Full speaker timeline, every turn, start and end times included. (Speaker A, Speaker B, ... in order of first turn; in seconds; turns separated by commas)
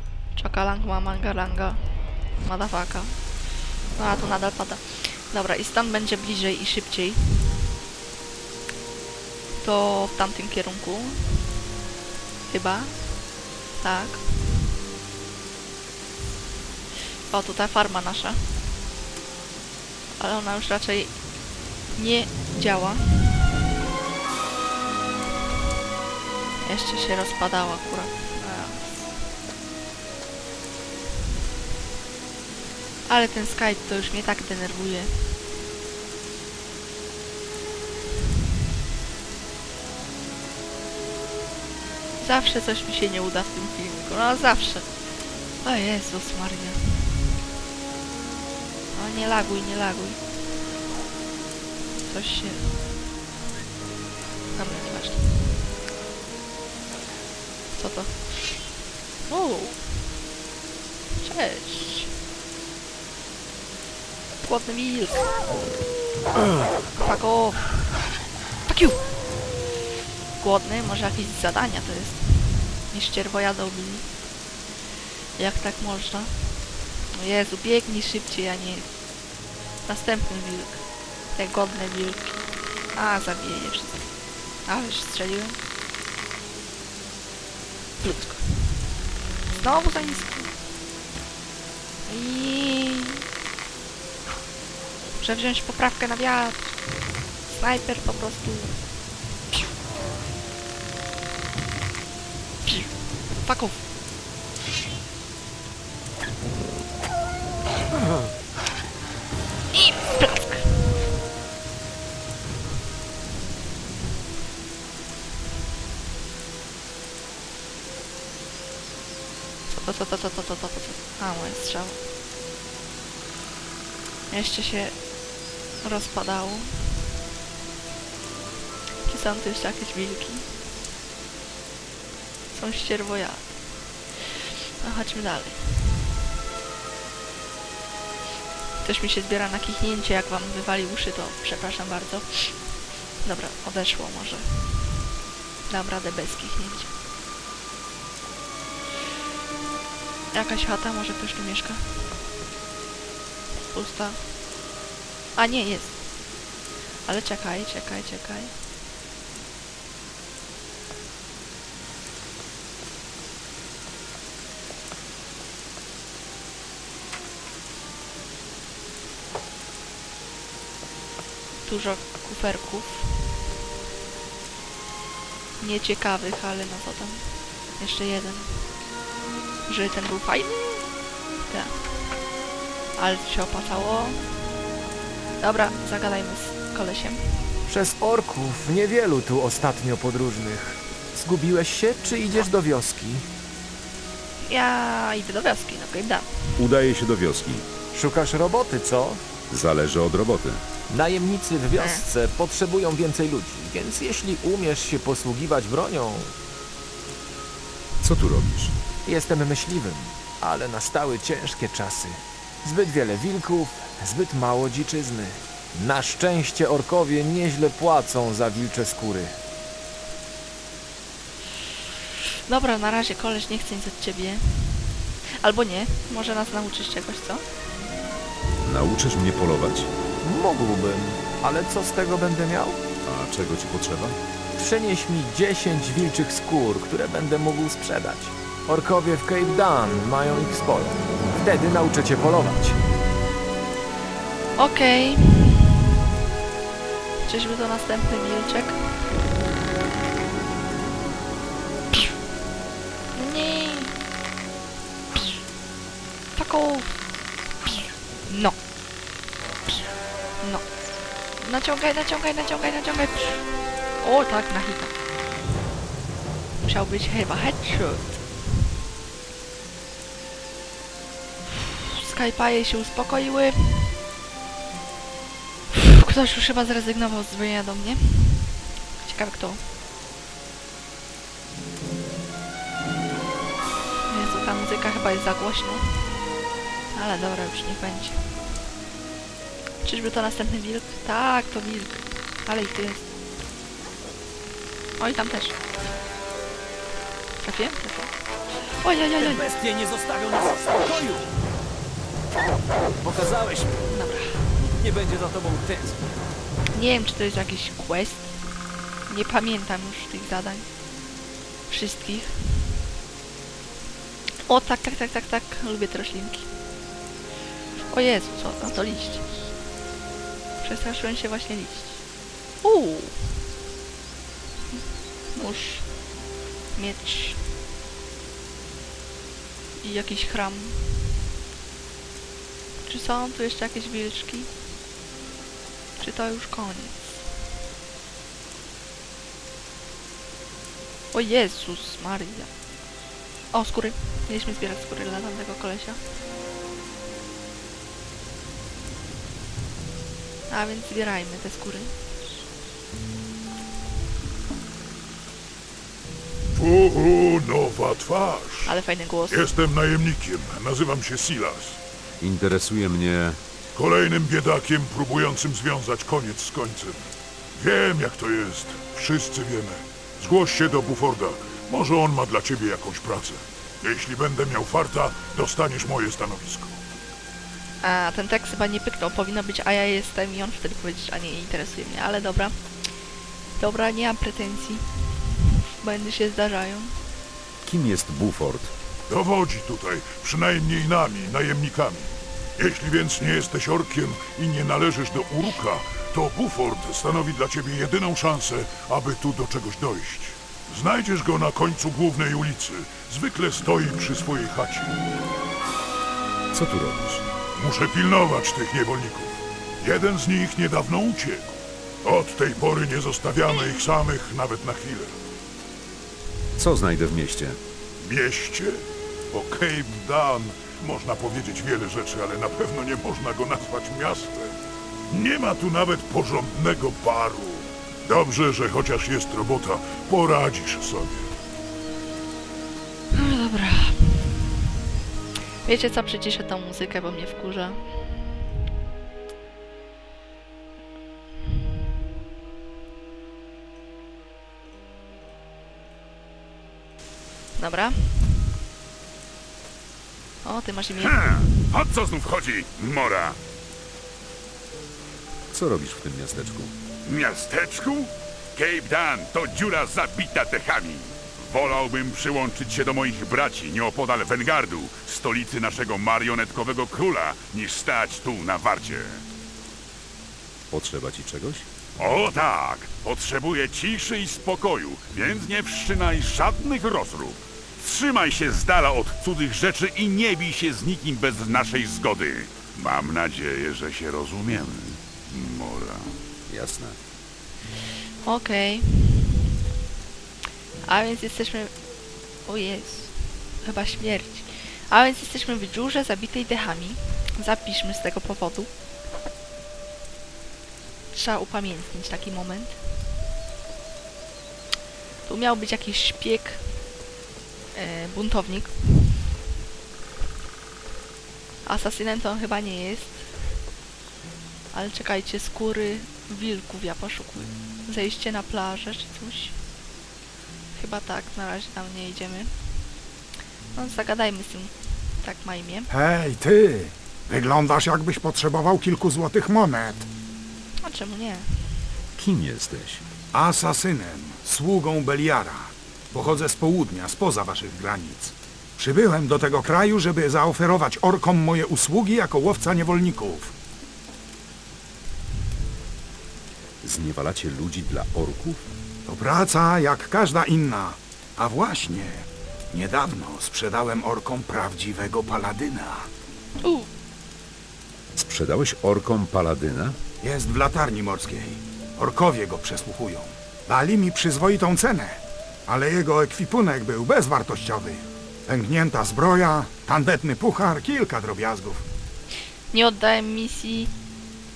Speaker A: 0.3-1.8, Speaker A: 2.4-3.2, Speaker A: 4.0-7.6, Speaker A: 9.6-11.5, Speaker A: 12.5-13.0, Speaker A: 13.8-14.2, Speaker A: 17.3-18.7, Speaker A: 20.2-21.1, Speaker A: 21.9-23.4, Speaker A: 26.6-29.1, Speaker A: 33.1-35.1, Speaker A: 42.2-44.9, Speaker A: 45.6-47.2, Speaker A: 48.9-50.2, Speaker A: 52.0-52.9, Speaker A: 54.5-55.6, Speaker A: 57.7-58.6, Speaker A: 59.3-59.9, Speaker A: 61.2-62.1, Speaker A: 64.4-65.3, Speaker A: 67.0-67.8, Speaker A: 68.7-69.1, Speaker A: 70.4-74.1, Speaker A: 75.4-78.8, Speaker A: 79.8-80.8, Speaker A: 81.3-82.4, Speaker A: 82.9-84.1, Speaker A: 84.7-85.6, Speaker A: 88.0-88.8, Speaker A: 89.5-90.5, Speaker A: 92.1-93.2, Speaker A: 95.2-96.7, Speaker A: 97.5-98.8, Speaker A: 102.7-103.8, Speaker A: 109.7-110.8, Speaker A: 119.7-122.0, Speaker A: 124.3-124.9, Speaker A: 125.8-126.9, Speaker A: 129.1-130.5, Speaker A: 132.5-133.6, Speaker A: 134.2-135.6, Speaker A: 138.8-142.6, Speaker A: 143.2-145.0, Speaker A: 145.7-146.9, Speaker A: 150.3-152.0, Speaker A: 153.6-154.2, Speaker A: 155.3-156.0, Speaker A: 157.1-158.5, Speaker A: 171.7-173.3, Speaker A: 175.6-177.2, Speaker A: 177.8-178.6, Speaker A: 179.7-180.9, Speaker A: 181.5-181.8, Speaker A: 182.9-184.2, Speaker A: 185.4-187.6, Speaker B: 187.7-193.3, Speaker A: 194.4-196.3, Speaker C: 196.6-197.7, Speaker B: 197.9-199.2, Speaker C: 199.5-200.6, Speaker B: 200.9-206.3, Speaker A: 201.8-202.0, Speaker C: 208.0-208.7, Speaker B: 209.0-219.4, Speaker A: 222.5-227.4, Speaker C: 228.6-229.9, Speaker B: 230.2-232.8, Speaker C: 233.0-234.2, Speaker B: 234.5-242.8, Speaker A: 244.6-245.9, Speaker A: 247.2-249.0, Speaker A: 253.1-254.0, Speaker A: 255.1-255.4, Speaker A: 256.4-256.9, Speaker A: 257.6-258.6, Speaker A: 261.4-264.9, Speaker A: 266.6-268.2, Speaker A: 271.5-274.0, Speaker A: 275.7-279.6, Speaker A: 284.1-286.2, Speaker A: 286.9-288.2, Speaker A: 289.8-293.1, Speaker A: 295.0-295.6, Speaker A: 297.4-298.1, Speaker A: 298.8-299.5, Speaker D: 299.2-301.3, Speaker D: 303.0-303.7, Speaker A: 303.9-304.3, Speaker D: 304.8-306.0, Speaker A: 306.7-308.3, Speaker A: 309.1-310.6, Speaker A: 311.7-312.4, Speaker A: 314.4-316.5, Speaker A: 317.8-319.3, Speaker A: 320.6-322.0, Speaker A: 322.6-323.2, Speaker A: 325.3-325.9, Speaker A: 326.7-327.4, Speaker A: 329.8-331.1, Speaker A: 332.8-334.5, Speaker A: 336.0-337.2, Speaker A: 341.1-342.5, Speaker A: 343.5-346.0, Speaker A: 350.5-351.9, Speaker E: 356.5-358.8, Speaker A: 358.6-359.5, Speaker E: 359.3-361.8, Speaker C: 362.2-363.4, Speaker E: 363.7-376.8, Speaker A: 377.8-382.5, Speaker A: 383.6-386.9, Speaker C: 387.6-388.7, Speaker E: 389.1-405.0, Speaker C: 406.5-407.2, Speaker E: 407.5-415.2, Speaker C: 416.6-417.6, Speaker E: 418.0-424.6, Speaker E: 425.1-431.3, Speaker A: 433.1-434.6, Speaker A: 435.6-438.2, Speaker A: 447.6-448.4, Speaker A: 450.4-451.4, Speaker F: 451.0-453.4, Speaker C: 455.5-456.7, Speaker F: 457.1-469.2, Speaker C: 470.7-471.6, Speaker F: 472.0-486.1, Speaker C: 486.5-487.0, Speaker A: 488.2-489.4, Speaker A: 490.9-491.7, Speaker A: 492.4-498.7, Speaker A: 501.1-502.8, Speaker A: 505.2-506.6, Speaker A: 507.7-509.2, Speaker A: 511.6-513.3, Speaker A: 514.7-519.5, Speaker A: 520.7-522.5, Speaker A: 523.7-525.9, Speaker G: 525.9-530.1, Speaker A: 530.8-531.5, Speaker C: 532.2-533.0, Speaker G: 533.3-543.5, Speaker C: 546.8-548.6, Speaker G: 549.1-556.1, Speaker A: 556.6-556.9, Speaker C: 558.1-560.0, Speaker G: 560.2-571.8, Speaker A: 572.7-573.9